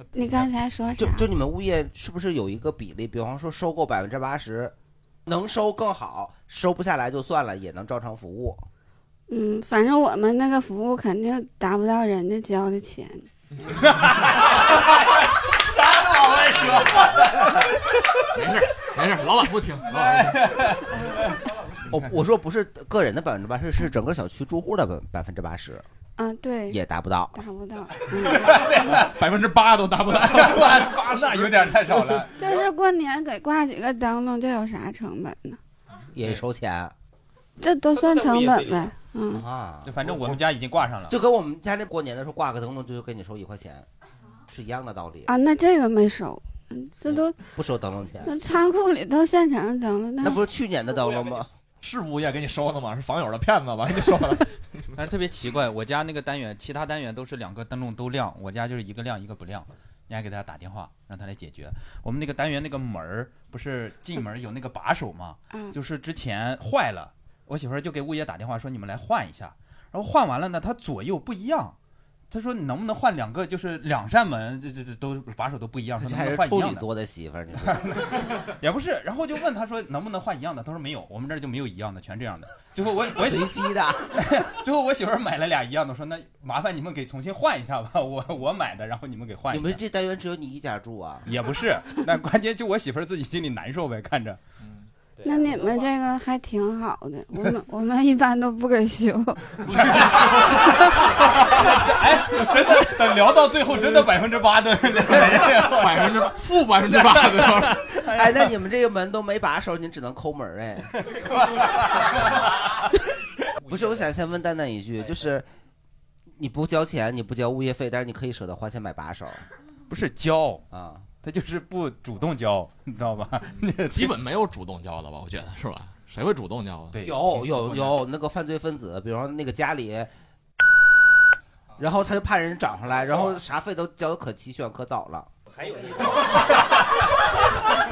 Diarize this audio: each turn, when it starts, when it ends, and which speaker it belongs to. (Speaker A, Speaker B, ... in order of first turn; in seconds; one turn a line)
Speaker A: 0.1-1.2
Speaker B: 1.0-4.7
Speaker B: 5.2-8.6
Speaker A: 9.3-13.2
Speaker C: 13.9-14.7
Speaker C: 15.5-17.6
Speaker D: 18.3-20.6
Speaker C: 20.1-21.4
Speaker B: 21.9-25.9
Speaker A: 26.2-26.8
Speaker B: 26.7-27.4
Speaker A: 27.4-28.5
Speaker C: 28.3-29.1
Speaker D: 28.9-31.5
Speaker C: 30.2-32.4
Speaker A: 32.4-35.6
Speaker B: 36.1-36.9
Speaker A: 37.6-39.4
Speaker B: 39.3-40.1
Speaker C: 39.9-41.1
Speaker B: 41.1-43.9
Speaker B: 44.5-45.3
Speaker A: 45.3-47.4
Speaker B: 47.0-48.4
Speaker A: 48.2-50.4
Speaker B: 50.2-51.5
Speaker D: 51.8-55.0
Speaker C: 55.0-71.8
Speaker C: 72.3-76.8
Speaker B: 76.0-77.8
Speaker C: 77.7-89.8
Speaker B: 83.1-84.1
Speaker B: 89.5-91.3
Speaker C: 91.2-94.4
Speaker A: 95.2-99.8
Speaker C: 99.7-106.2
Speaker D: 99.9-100.1
Speaker D: 105.1-107.8
Speaker C: 107.0-108.2
Speaker B: 108.0-110.9
Speaker C: 111.1-112.4
Speaker B: 113.7-115.5
Speaker B: 116.4-119.5
Speaker C: 119.9-120.6
Speaker B: 120.7-121.0
Speaker C: 121.2-124.1
Speaker D: 123.9-127.0
Speaker C: 126.9-127.9
Speaker B: 127.0-130.1
Speaker B: 131.8-135.3
Speaker C: 135.7-136.4